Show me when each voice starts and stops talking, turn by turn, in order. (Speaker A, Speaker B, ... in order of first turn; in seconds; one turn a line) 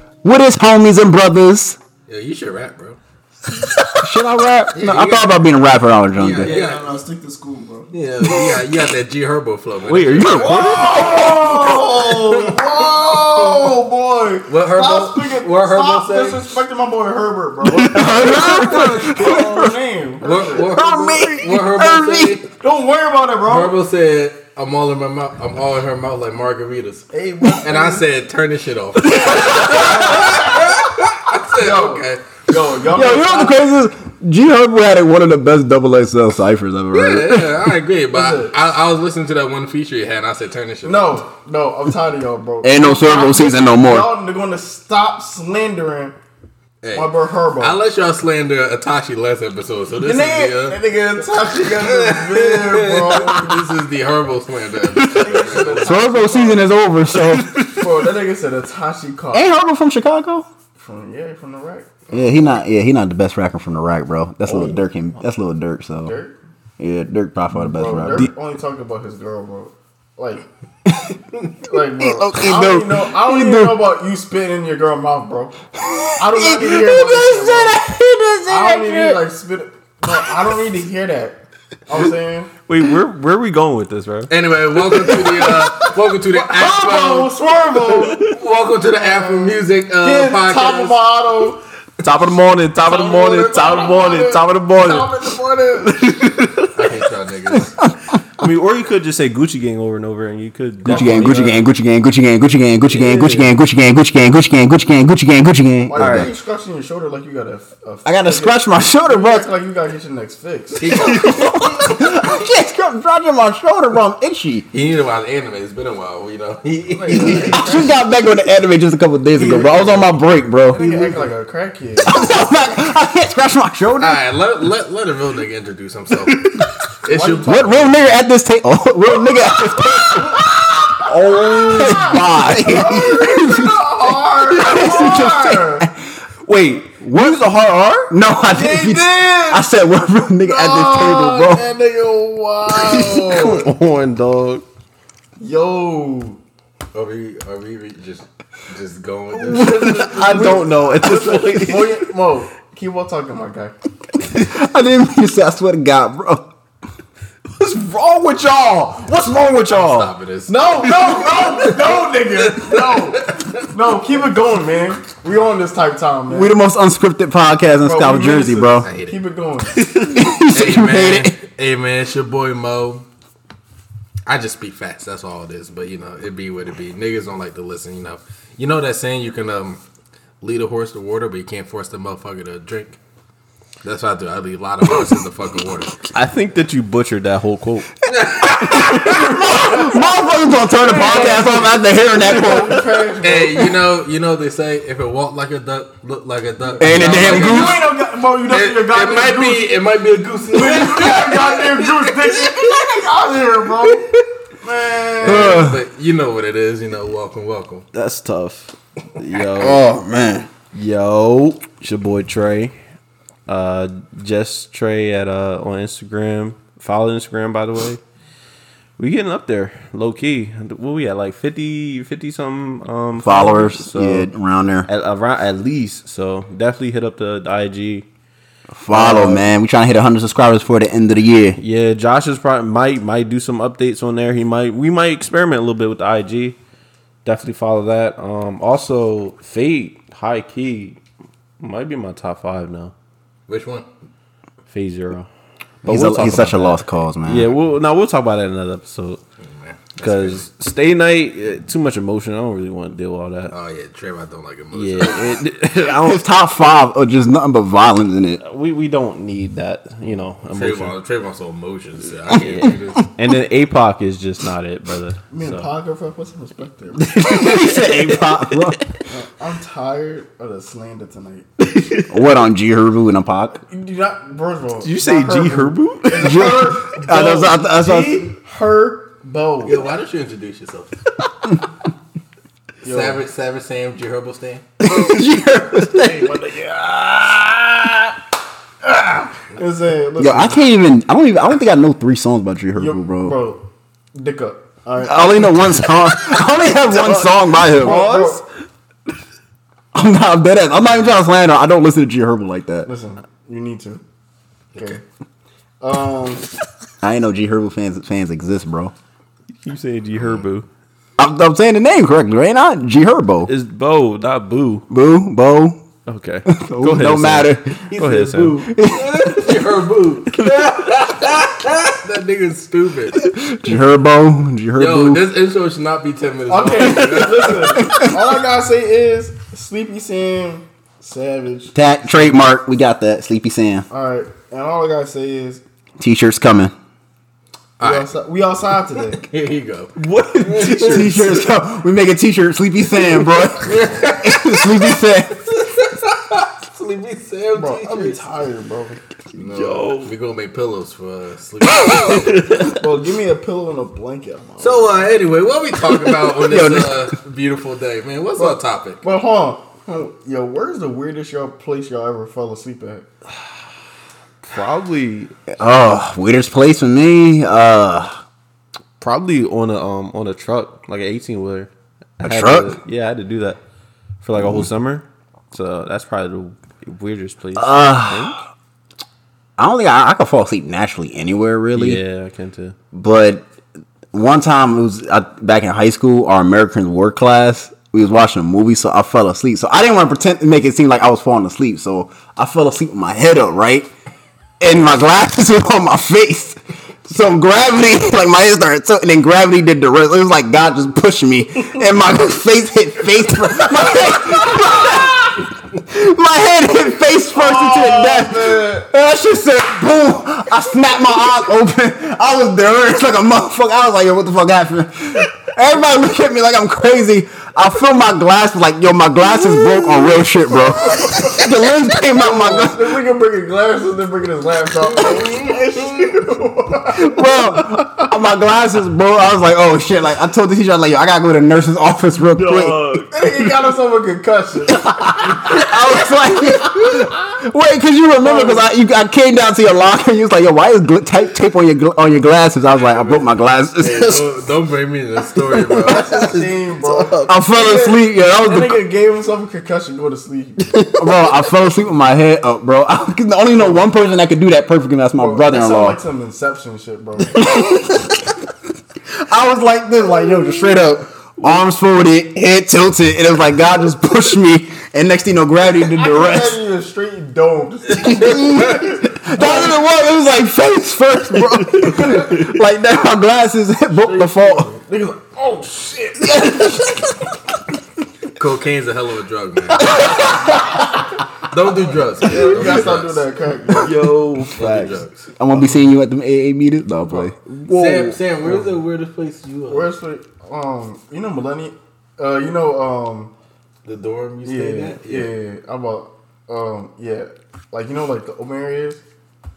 Speaker A: 0.2-1.8
Speaker B: 2.1-3.0
Speaker A: 3.9-6.5
Speaker B: 4.7-5.3
Speaker B: 6.1-6.9
Speaker C: 6.4-8.5
Speaker B: 7.9-11.3
Speaker D: 9.8-11.2
Speaker C: 10.3-20.8
Speaker A: 11.1-11.8
Speaker B: 12.1-13.6
Speaker B: 14.5-16.6
Speaker A: 17.6-19.7
Speaker D: 18.0-18.5
Speaker B: 20.2-22.4
Speaker A: 20.6-22.4
Speaker C: 22.5-23.8
Speaker B: 23.4-27.1
Speaker C: 27.1-28.1
Speaker B: 27.6-32.4
Speaker A: 29.2-30.0
Speaker D: 29.3-29.6
Speaker C: 29.6-30.8
Speaker C: 31.6-33.6
Speaker A: 32.9-37.7
Speaker B: 36.9-41.2
Speaker C: 38.1-38.5
Speaker C: 40.8-46.1
Speaker A: 42.6-44.1
Speaker B: 46.8-50.8
Speaker C: 46.9-47.8
Speaker C: 50.0-53.7
Speaker B: 51.6-56.1
Speaker A: 55.0-57.6
Speaker C: 55.0-56.6
Speaker D: 57.5-57.8
Speaker C: 57.6-59.5
Speaker A: 59.3-60.5
Speaker C: 60.8-62.6
Speaker A: 62.1-66.1
Speaker D: 64.4-64.8
Speaker C: 66.0-66.3
Speaker A: 66.8-68.3
Speaker C: 67.5-70.5
Speaker A: 70.9-71.2
Speaker C: 71.6-75.6
Speaker A: 71.9-73.9
Speaker A: 75.8-79.2
Speaker C: 76.2-77.8
Speaker C: 78.5-82.5
Speaker D: 82.7-84.3
Speaker B: 84.3-91.0
Speaker A: 85.0-85.8
Speaker C: 86.3-88.3
Speaker C: 88.9-91.6
Speaker D: 92.0-95.1
Speaker C: 92.8-96.1
Speaker D: 95.8-96.8
Speaker B: 96.7-97.8
Speaker D: 98.4-101.7
Speaker A: 100.8-106.3
Speaker C: 100.9-101.4
Speaker D: 102.9-103.5
Speaker C: 105.9-111.3
Speaker D: 106.0-106.3
Speaker A: 108.0-109.5
Speaker B: 110.8-112.2
Speaker A: 110.9-114.7
Speaker B: 114.7-117.9
Speaker C: 116.9-118.0
Speaker A: 117.1-120.9
Speaker C: 119.4-120.1
Speaker C: 120.7-122.3
Speaker D: 120.9-121.2
Speaker A: 122.0-124.2
Speaker B: 124.0-127.9
Speaker C: 127.1-127.7
Speaker A: 127.4-135.9
Speaker D: 131.0-132.5
Speaker C: 131.3-135.9
Speaker D: 136.5-138.1
Speaker A: 136.5-137.4
Speaker A: 138.1-141.7
Speaker C: 138.4-139.7
Speaker C: 140.4-143.7
Speaker D: 142.8-144.6
Speaker C: 145.4-146.4
Speaker B: 146.9-150.6
Speaker D: 149.4-152.0
Speaker C: 149.5-153.7
Speaker A: 154.3-156.4
Speaker D: 157.6-160.1
Speaker B: 159.7-163.6
Speaker C: 160.5-166.6
Speaker A: 166.3-168.9
Speaker C: 167.8-169.9
Speaker B: 168.8-169.2
Speaker A: 170.0-171.3
Speaker B: 170.5-173.0
Speaker B: 174.3-179.8
Speaker B: 180.4-183.0
Speaker B: 183.8-186.0
Speaker D: 186.1-187.9
Speaker B: 188.1-189.5
Speaker A: 188.5-192.8
Speaker C: 189.6-189.9
Speaker C: 190.7-193.7
Speaker D: 191.1-191.6
Speaker B: 193.2-197.9
Speaker A: 196.8-197.8
Speaker C: 196.8-199.7
Speaker B: 198.5-202.7
Speaker C: 200.5-205.7
Speaker B: 205.2-207.8
Speaker A: 205.2-205.8
Speaker D: 207.9-209.8
Speaker A: 209.5-210.5
Speaker D: 210.7-212.7
Speaker D: 213.5-218.0
Speaker D: 219.0-224.3
Speaker A: 223.2-224.9
Speaker D: 224.9-228.1
Speaker A: 228.7-231.6
Speaker D: 228.9-229.5
Speaker D: 231.6-236.6
Speaker D: 237.2-241.0
Speaker D: 241.6-242.9
Speaker B: 243.5-243.8
Speaker D: 244.7-245.3
Speaker A: 245.8-247.5
Speaker D: 245.8-249.2
Speaker B: 249.6-250.4
Speaker D: 250.0-253.5
Speaker B: 253.5-255.4
Speaker D: 254.7-256.2
Speaker A: 255.9-258.4
Speaker D: 258.4-260.9
Speaker B: 260.5-263.0
Speaker D: 262.3-265.7
Speaker C: 265.3-267.2
Speaker D: 267.0-268.5
Speaker A: 267.1-268.8
Speaker C: 269.1-271.5
Speaker D: 271.6-272.1
Speaker A: 272.1-273.6
Speaker C: 273.6-279.8
Speaker D: 274.8-276.5
Speaker A: 276.1-278.3
Speaker B: 279.6-281.0
Speaker C: 282.8-283.2
Speaker B: 282.8-284.7
Speaker A: 284.8-286.3
Speaker C: 285.9-287.6
Speaker C: 288.8-290.6
Speaker A: 290.2-293.4
Speaker C: 292.8-295.6
Speaker A: 295.0-298.1
Speaker D: 296.9-298.4
Speaker C: 297.6-298.4
Speaker A: 299.9-302.9
Speaker C: 302.8-304.0
Speaker C: 304.8-305.0
Speaker C: 305.8-306.4
Speaker A: 307.0-308.9
Speaker D: 309.6-310.7
Speaker A: 311.2-313.5
Speaker D: 313.5-314.9
Speaker A: 314.9-315.8
Speaker D: 316.1-318.6
Speaker A: 316.5-317.8
Speaker B: 317.9-323.3
Speaker A: 318.6-319.4
Speaker D: 320.4-320.9
Speaker A: 323.3-325.2
Speaker B: 324.8-327.8
Speaker C: 326.5-332.5
Speaker D: 326.8-327.2
Speaker A: 327.8-328.1
Speaker A: 331.7-333.9
Speaker C: 333.9-335.6
Speaker A: 336.0-336.7
Speaker B: 337.8-338.1
Speaker C: 337.8-339.2
Speaker B: 339.2-341.1
Speaker D: 339.9-341.4
Speaker A: 340.8-345.5
Speaker B: 343.6-348.2
Speaker C: 347.5-349.9
Speaker D: 349.4-350.1
Speaker B: 350.0-352.4
Speaker D: 351.9-352.8
Speaker C: 352.7-355.1
Speaker B: 354.6-359.0
Speaker A: 356.3-357.1
Speaker C: 358.3-363.1
Speaker D: 364.5-365.3
Speaker A: 365.5-368.2
Speaker D: 369.0-373.6
Speaker A: 372.2-372.8
Speaker D: 374.2-378.4
Speaker A: 374.4-374.6
Speaker A: 377.6-378.4
Speaker A: 379.6-382.0
Speaker D: 381.7-382.8
Speaker A: 382.9-383.4
Speaker A: 384.1-393.9
Speaker A: 394.6-423.0
Speaker C: 407.3-408.9
Speaker C: 420.8-421.5
Speaker C: 422.0-428.1
Speaker B: 424.9-425.7
Speaker A: 426.9-432.8
Speaker D: 432.3-433.5
Speaker C: 433.1-434.9
Speaker A: 434.7-444.3
Speaker C: 438.2-438.6
Speaker B: 443.8-446.5
Speaker D: 445.7-447.3
Speaker C: 445.8-450.8
Speaker A: 447.3-448.8
Speaker D: 450.6-451.3
Speaker A: 450.9-456.0
Speaker C: 453.5-453.8
Speaker C: 455.1-457.5
Speaker A: 457.4-458.3
Speaker A: 459.1-466.6
Speaker C: 465.9-469.8
Speaker A: 467.9-474.7
Speaker D: 471.8-472.1
Speaker C: 472.0-472.4
Speaker C: 473.9-476.4
Speaker A: 476.2-477.2
Speaker B: 478.4-480.1
Speaker D: 479.9-480.4
Speaker B: 481.4-483.2
Speaker C: 482.2-484.1
Speaker D: 483.8-485.0
Speaker B: 484.6-485.3
Speaker A: 485.4-487.4
Speaker D: 487.4-488.2
Speaker B: 487.7-489.9
Speaker C: 489.7-493.3
Speaker B: 493.8-495.3
Speaker C: 494.4-499.0